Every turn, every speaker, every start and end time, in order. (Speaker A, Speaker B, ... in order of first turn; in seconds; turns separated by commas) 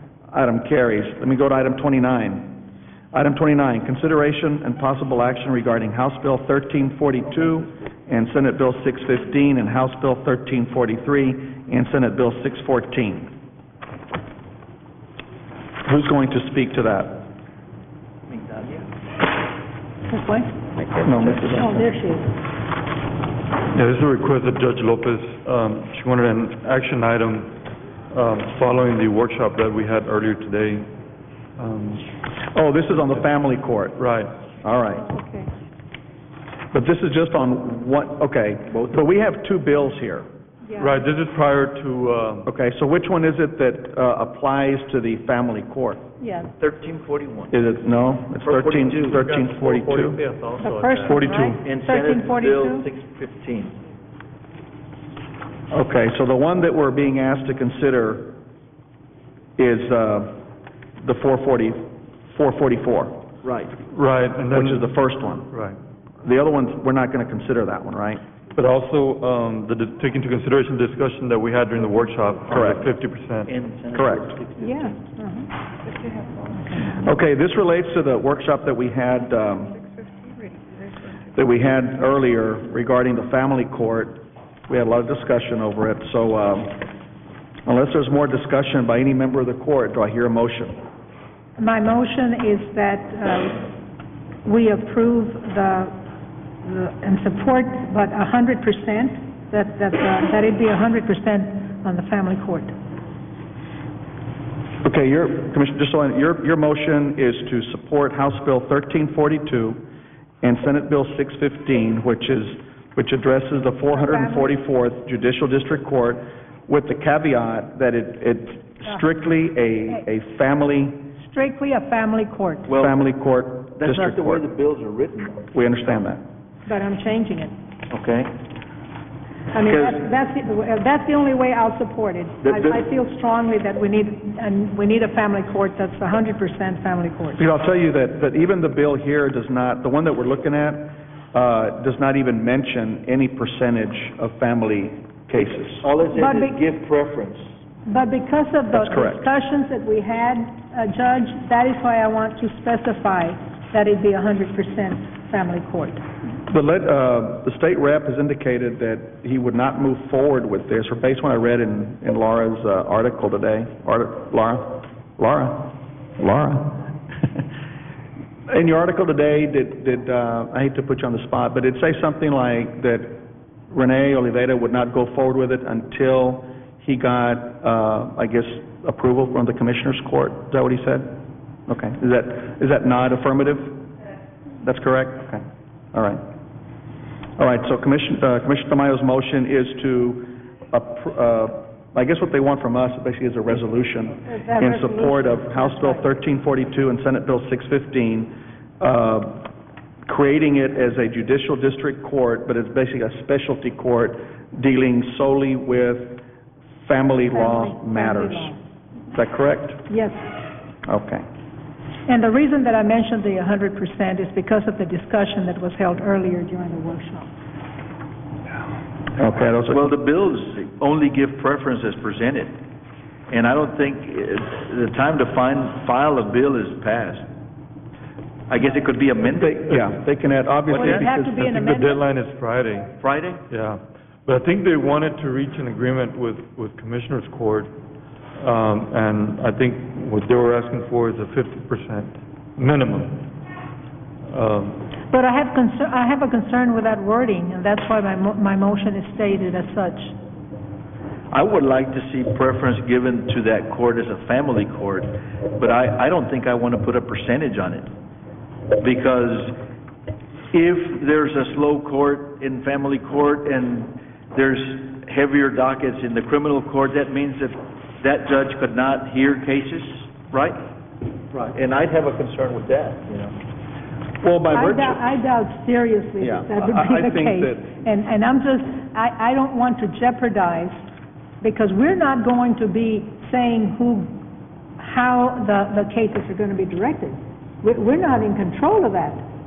Speaker A: 0.3-2.6, Speaker A: 3.1-13.3, Speaker A: 15.9-17.3, Speaker B: 18.3-18.9, Speaker C: 20.1-20.6, Speaker A: 21.0-21.9, Speaker C: 21.4-22.3, Speaker D: 23.7-27.6, Speaker D: 28.1-30.9, Speaker D: 31.6-32.0, Speaker A: 32.5-34.0, Speaker D: 34.0-34.3, Speaker A: 34.6-35.1, Speaker C: 35.0-35.5, Speaker A: 36.7-40.3, Speaker B: 38.7-39.1, Speaker C: 40.6-41.0, Speaker D: 40.8-42.5, Speaker A: 42.5-46.0, Speaker C: 46.2-46.5, Speaker B: 46.6-47.5, Speaker A: 47.5-50.2, Speaker B: 48.4-49.3, Speaker D: 49.3-51.6, Speaker C: 50.6-52.9, Speaker B: 51.1-53.8, Speaker A: 55.7-58.4, Speaker A: 59.6-60.4, Speaker A: 61.0-63.2, Speaker B: 63.4-63.7, Speaker D: 63.9-64.9, Speaker A: 64.5-65.5, Speaker D: 65.5-65.8, Speaker A: 66.2-68.2, Speaker D: 68.5-73.5, Speaker A: 72.5-72.8, Speaker B: 73.5-75.0, Speaker A: 73.9-74.4, Speaker C: 74.6-75.5, Speaker C: 76.6-77.0, Speaker A: 77.0-79.8, Speaker A: 81.3-86.8, Speaker A: 87.7-90.8, Speaker C: 91.6-93.7, Speaker C: 94.4-95.9, Speaker C: 96.6-102.8, Speaker A: 104.8-109.8, Speaker A: 110.4-121.0, Speaker C: 113.9-114.6, Speaker C: 121.2-122.7, Speaker B: 122.7-123.0, Speaker A: 122.7-124.4, Speaker B: 123.8-125.5, Speaker A: 125.5-126.2, Speaker C: 126.7-127.5, Speaker B: 127.9-128.3, Speaker C: 129.5-137.4, Speaker B: 129.6-130.0, Speaker B: 132.4-132.8, Speaker A: 137.4-145.9, Speaker B: 145.8-147.5, Speaker C: 146.1-146.6, Speaker C: 147.9-156.0, Speaker A: 148.7-149.3, Speaker A: 156.5-167.3, Speaker A: 168.5-181.1, Speaker A: 181.7-183.9, Speaker A: 184.6-185.4, Speaker A: 185.9-186.2, Speaker A: 187.4-199.5, Speaker C: 194.2-196.1, Speaker A: 200.1-206.2, Speaker A: 206.8-208.5, Speaker C: 207.3-208.6, Speaker A: 209.2-209.8, Speaker C: 209.9-210.2, Speaker A: 210.9-211.2, Speaker C: 212.1-217.3, Speaker A: 219.2-219.9, Speaker B: 219.7-222.6, Speaker B: 223.3-227.3, Speaker B: 228.5-230.0, Speaker A: 229.3-231.4, Speaker B: 230.7-231.1, Speaker C: 230.7-232.1, Speaker D: 231.4-232.9, Speaker B: 233.0-233.4, Speaker D: 233.5-237.7, Speaker D: 238.4-243.3, Speaker D: 244.3-244.8, Speaker C: 245.1-250.2, Speaker B: 251.3-257.9, Speaker B: 258.8-259.6, Speaker B: 260.5-270.6, Speaker B: 271.4-273.4, Speaker A: 274.2-275.0, Speaker C: 274.5-280.8, Speaker A: 276.2-277.7, Speaker C: 281.4-284.2, Speaker C: 284.8-289.2